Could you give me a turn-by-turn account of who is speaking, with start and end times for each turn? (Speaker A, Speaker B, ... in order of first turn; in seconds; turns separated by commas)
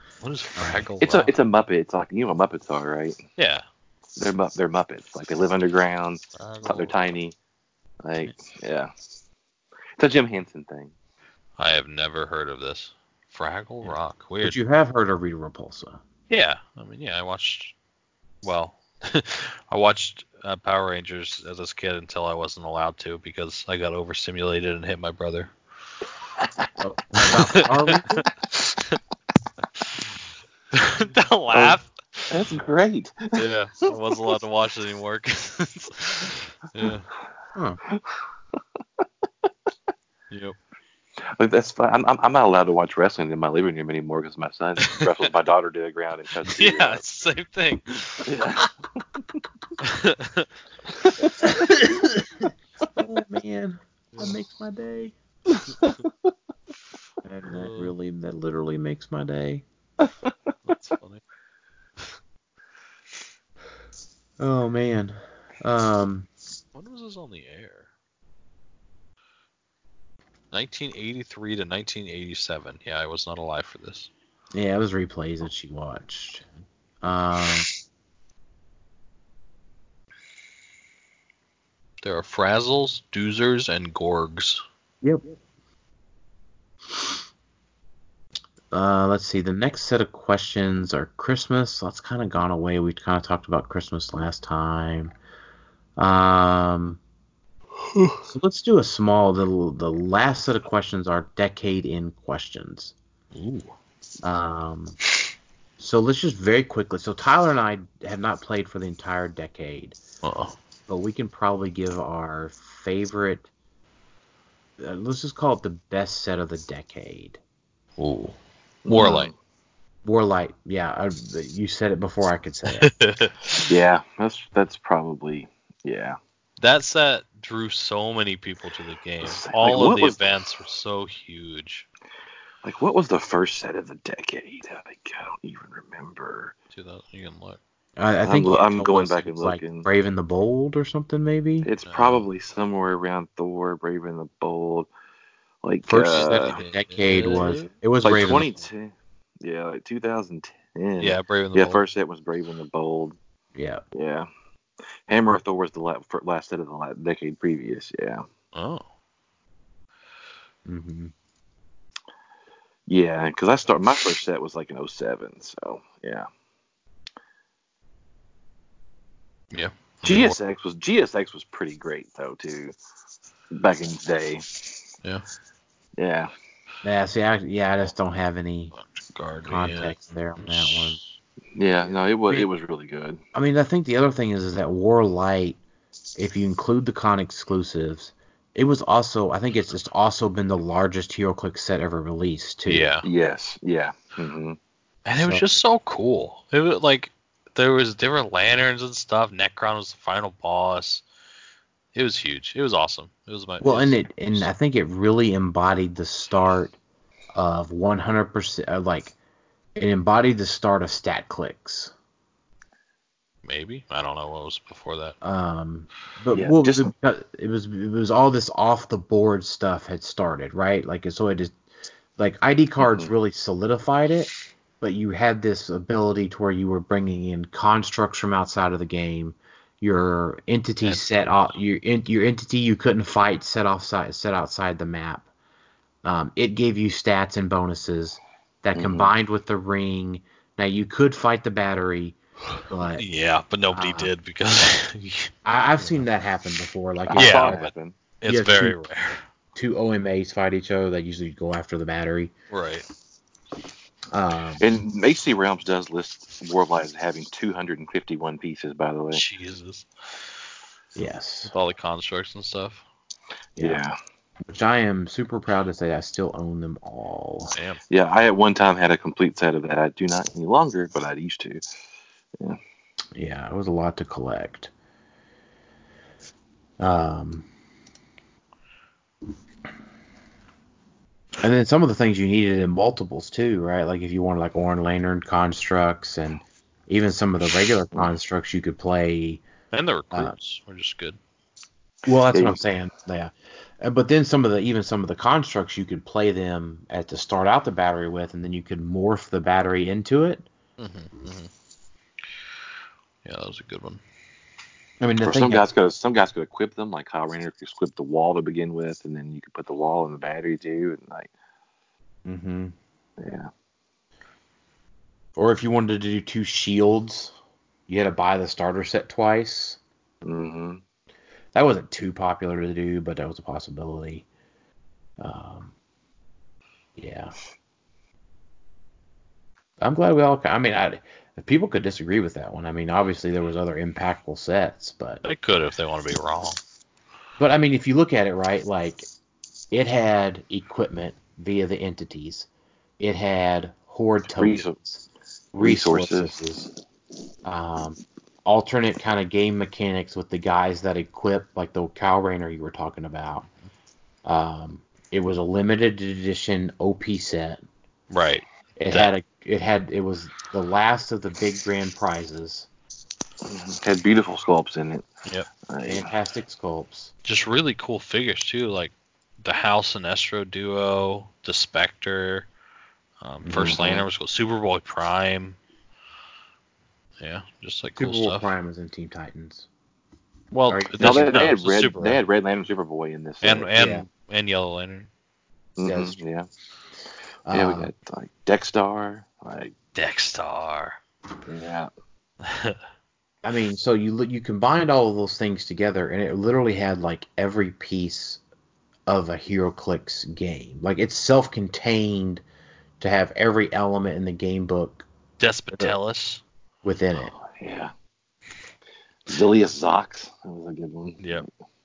Speaker A: 0.2-1.3, Speaker B: 0.6-0.8, Speaker C: 1.0-3.2, Speaker A: 3.4-3.6, Speaker C: 4.2-7.3, Speaker A: 6.3-7.0, Speaker C: 8.0-8.9, Speaker C: 10.0-10.9, Speaker A: 11.6-14.6, Speaker B: 13.8-16.0, Speaker A: 16.3-17.7, Speaker A: 18.4-25.5, Speaker B: 26.8-28.2, Speaker A: 27.2-29.0, Speaker A: 30.7-32.6, Speaker C: 32.3-33.4, Speaker A: 33.4-37.1, Speaker C: 37.9-39.0, Speaker A: 40.3-40.6, Speaker C: 41.2-47.0, Speaker A: 46.4-48.3, Speaker C: 48.2-48.7, Speaker A: 49.8-50.5, Speaker C: 51.0-51.3, Speaker B: 51.4-55.1, Speaker B: 57.2-59.6, Speaker A: 57.5-57.9, Speaker C: 60.0-60.3, Speaker A: 60.6-61.2, Speaker B: 64.4-66.3, Speaker A: 66.7-67.9, Speaker A: 70.5-74.1, Speaker B: 74.5-76.5, Speaker B: 77.0-77.7, Speaker A: 82.0-84.6, Speaker B: 88.7-95.1, Speaker B: 96.0-97.0, Speaker A: 97.9-98.2, Speaker B: 98.3-102.9, Speaker A: 103.3-103.7, Speaker B: 104.2-105.0, Speaker B: 105.8-110.0, Speaker A: 110.2-110.5, Speaker B: 110.9-113.5, Speaker B: 114.8-117.4, Speaker A: 118.0-118.3, Speaker C: 118.8-119.3, Speaker A: 118.9-119.3, Speaker B: 120.0-122.9, Speaker A: 122.8-123.7, Speaker C: 123.7-126.2, Speaker A: 126.6-131.8, Speaker C: 129.2-130.2, Speaker C: 132.6-136.5, Speaker A: 136.7-137.6, Speaker B: 138.0-141.7, Speaker C: 138.2-139.9, Speaker C: 141.6-144.9, Speaker A: 141.8-142.3, Speaker C: 145.6-146.6, Speaker B: 145.9-148.5, Speaker A: 146.1-147.7, Speaker C: 148.0-153.2, Speaker A: 151.0-151.8, Speaker B: 153.5-153.8, Speaker C: 153.9-154.3, Speaker C: 155.1-158.2, Speaker A: 158.5-158.9, Speaker B: 160.7-161.1, Speaker C: 162.9-166.3, Speaker A: 169.5-170.4, Speaker C: 170.0-172.8, Speaker C: 173.5-174.6, Speaker C: 176.0-176.3, Speaker B: 176.8-178.7, Speaker A: 178.7-181.2, Speaker B: 179.5-181.0, Speaker C: 181.5-183.2, Speaker B: 183.3-185.6, Speaker B: 186.2-192.9, Speaker A: 192.7-193.1, Speaker C: 193.0-194.6, Speaker A: 195.1-201.0, Speaker B: 195.2-195.6, Speaker A: 201.9-204.5, Speaker B: 203.6-206.8, Speaker B: 207.3-209.1, Speaker B: 209.8-211.9, Speaker A: 213.4-215.2, Speaker B: 215.2-221.6, Speaker C: 216.3-216.9, Speaker B: 222.2-235.3, Speaker C: 222.8-223.1, Speaker B: 236.0-243.0, Speaker C: 238.7-239.1, Speaker A: 242.9-246.0, Speaker B: 243.7-244.1, Speaker B: 245.4-247.6, Speaker C: 247.0-248.0, Speaker A: 247.2-249.2, Speaker B: 248.3-248.8, Speaker B: 249.5-252.3, Speaker A: 252.5-252.8, Speaker B: 254.1-254.6, Speaker C: 254.6-259.2, Speaker A: 259.1-260.3, Speaker B: 260.9-261.5, Speaker A: 261.5-262.8, Speaker C: 263.6-263.9, Speaker B: 264.5-267.5, Speaker A: 267.5-267.8, Speaker C: 267.9-271.6, Speaker B: 273.1-274.7, Speaker B: 276.8-277.5, Speaker B: 281.4-289.4, Speaker A: 289.7-291.2, Speaker B: 292.1-300.5, Speaker C: 292.3-292.6, Speaker A: 300.8-301.5, Speaker A: 303.2-304.0, Speaker B: 305.0-305.7, Speaker C: 305.2-311.3, Speaker B: 312.2-312.7, Speaker C: 313.2-313.5, Speaker B: 315.4-317.3, Speaker B: 317.9-319.8, Speaker C: 320.2-320.8, Speaker B: 321.5-324.2, Speaker B: 325.2-325.7, Speaker B: 327.0-327.4, Speaker B: 329.8-335.2, Speaker A: 335.2-336.6, Speaker B: 337.4-339.1, Speaker B: 339.7-346.7, Speaker C: 344.3-344.8, Speaker C: 345.6-346.3, Speaker B: 347.4-353.5, Speaker B: 354.2-357.6, Speaker A: 358.1-359.1, Speaker B: 358.8-362.7, Speaker C: 363.4-365.1, Speaker C: 365.7-366.1, Speaker B: 365.8-367.1, Speaker A: 367.2-368.9, Speaker A: 369.4-372.5, Speaker A: 373.2-375.6, Speaker B: 373.4-374.0, Speaker C: 373.6-374.0, Speaker A: 377.2-378.5, Speaker B: 378.0-379.7, Speaker A: 380.5-382.2, Speaker B: 380.7-381.5, Speaker C: 381.0-383.7, Speaker A: 383.4-385.1, Speaker B: 383.7-384.1, Speaker C: 385.8-386.5, Speaker B: 385.8-386.2, Speaker B: 387.4-387.9, Speaker C: 387.5-389.7, Speaker A: 389.9-391.0, Speaker C: 391.4-391.9, Speaker A: 392.4-392.8, Speaker B: 393.4-398.4, Speaker B: 399.1-402.4, Speaker B: 403.0-405.1, Speaker A: 405.4-406.4, Speaker B: 406.8-407.3, Speaker C: 407.2-407.9, Speaker C: 409.3-411.4, Speaker A: 411.2-411.5